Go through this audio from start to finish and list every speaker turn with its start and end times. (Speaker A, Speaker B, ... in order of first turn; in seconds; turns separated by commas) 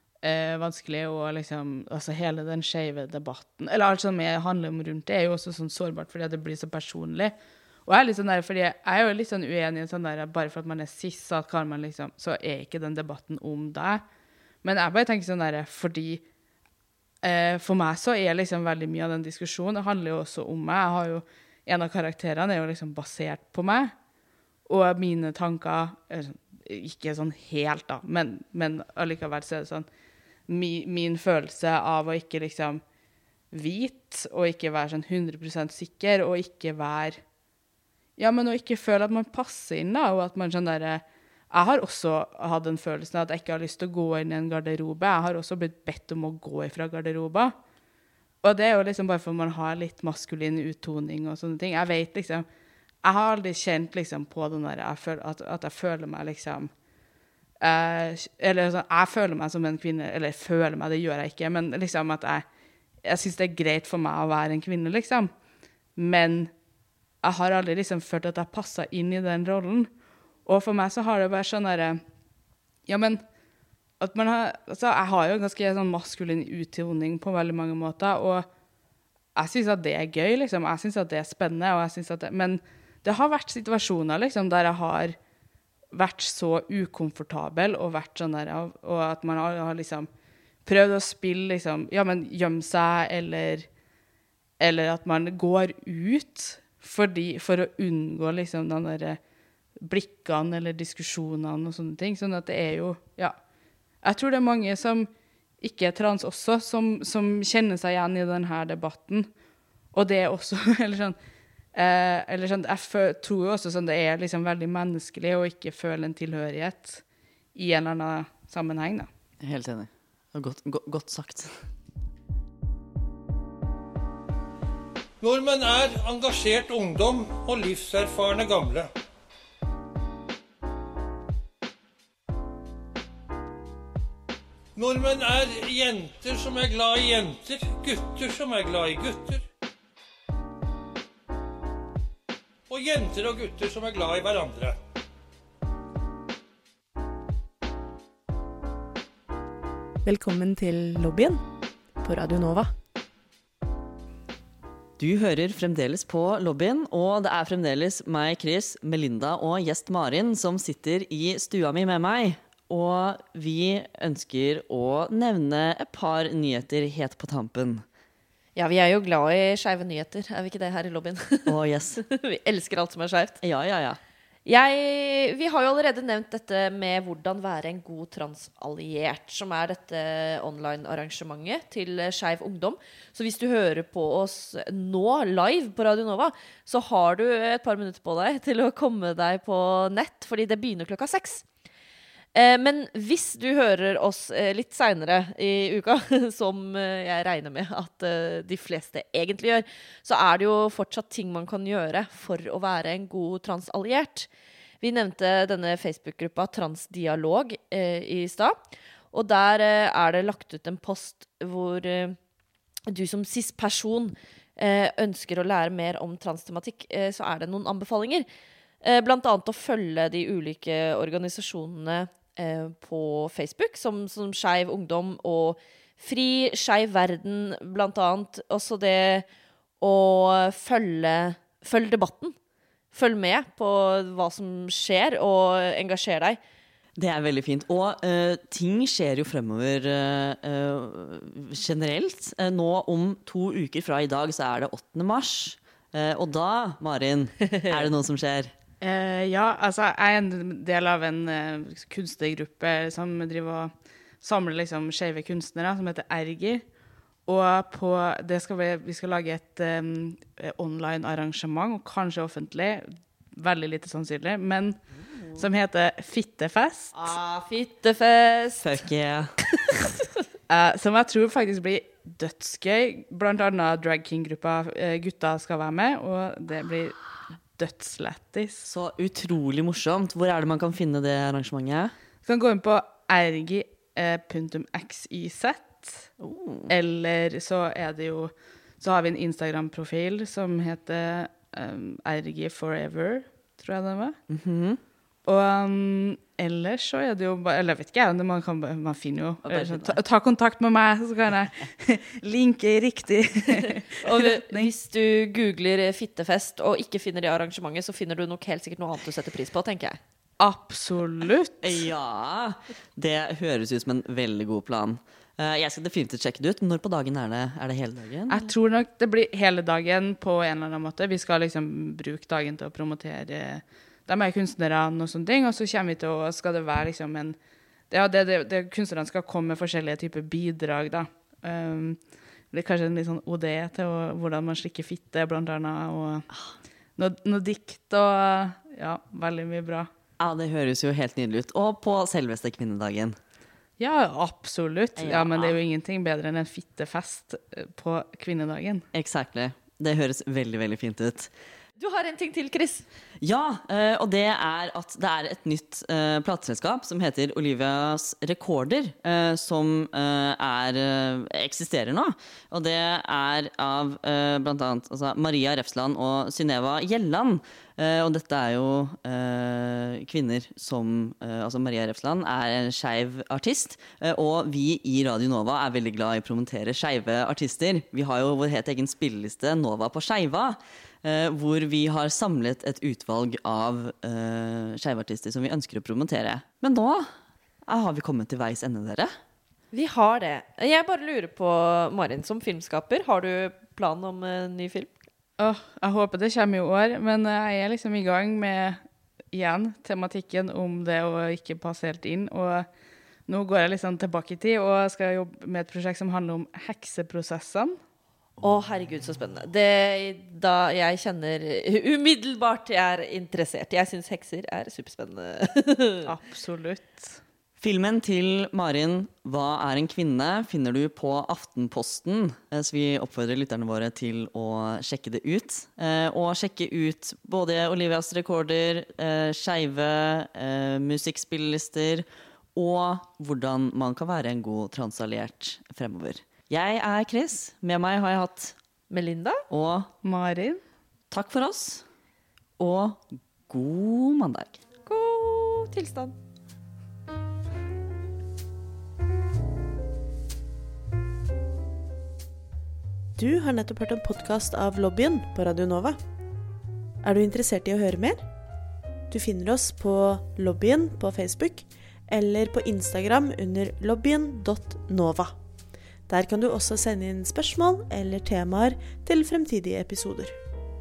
Speaker A: 0.2-7.3, Speaker A: 7.8-14.0, Speaker A: 14.6-16.2, Speaker A: 17.2-23.9, Speaker A: 24.7-29.9, Speaker A: 30.5-32.8, Speaker A: 33.5-37.2, Speaker A: 38.2-47.5, Speaker A: 48.4-52.5, Speaker A: 53.0-56.7, Speaker A: 57.6-62.4, Speaker A: 63.0-65.3, Speaker A: 66.0-66.5, Speaker A: 67.2-69.9, Speaker A: 70.5-72.0, Speaker A: 72.9-73.2, Speaker A: 74.0-78.5, Speaker A: 79.3-85.2, Speaker A: 85.9-90.1, Speaker A: 90.7-93.7, Speaker A: 94.6-99.2, Speaker A: 99.8-103.3, Speaker A: 104.0-105.1, Speaker A: 105.6-109.3, Speaker A: 109.9-111.2, Speaker A: 111.7-117.0, Speaker A: 117.5-119.1, Speaker B: 119.4-121.6, Speaker C: 125.2-128.9, Speaker C: 134.8-139.4, Speaker C: 142.7-144.8, Speaker D: 150.0-151.4, Speaker D: 152.0-152.7, Speaker B: 155.0-167.8, Speaker E: 168.6-173.4, Speaker B: 171.4-172.0, Speaker B: 173.4-174.0, Speaker E: 174.4-191.4, Speaker E: 192.3-204.3, Speaker E: 204.8-208.6, Speaker E: 209.1-212.2, Speaker E: 212.9-218.2, Speaker E: 218.8-229.2, Speaker E: 229.8-232.3, Speaker E: 232.9-236.4, Speaker B: 237.0-248.5, Speaker A: 248.8-256.6, Speaker A: 257.3-264.8, Speaker A: 265.3-267.1, Speaker E: 266.9-268.8, Speaker B: 268.6-269.3, Speaker E: 269.7-269.9, Speaker A: 270.5-277.0, Speaker A: 277.6-278.6, Speaker B: 278.6-281.9, Speaker A: 282.2-286.1, Speaker B: 286.2-286.7, Speaker A: 286.7-294.1, Speaker B: 294.3-294.8, Speaker A: 295.2-304.7, Speaker B: 299.5-300.0, Speaker E: 304.0-310.0, Speaker A: 310.4-311.9, Speaker B: 311.6-318.5, Speaker A: 318.3-327.4, Speaker A: 327.9-332.0, Speaker A: 332.5-336.3, Speaker A: 337.0-339.9, Speaker B: 340.2-343.1, Speaker A: 343.8-348.8, Speaker B: 345.0-345.6, Speaker B: 348.9-351.3, Speaker E: 351.8-352.8, Speaker B: 353.2-387.1, Speaker B: 387.6-389.1, Speaker E: 389.7-395.0, Speaker A: 395.4-398.8, Speaker A: 399.3-402.7, Speaker A: 403.3-407.8, Speaker E: 408.4-416.1, Speaker A: 416.0-417.2, Speaker B: 417.6-438.6, Speaker E: 438.9-439.4, Speaker B: 439.5-439.9, Speaker A: 440.0-440.6, Speaker B: 441.1-441.8, Speaker B: 442.6-444.6, Speaker E: 444.9-446.1, Speaker D: 453.2-456.0, Speaker D: 457.0-458.2, Speaker D: 459.1-465.3, Speaker D: 466.1-470.4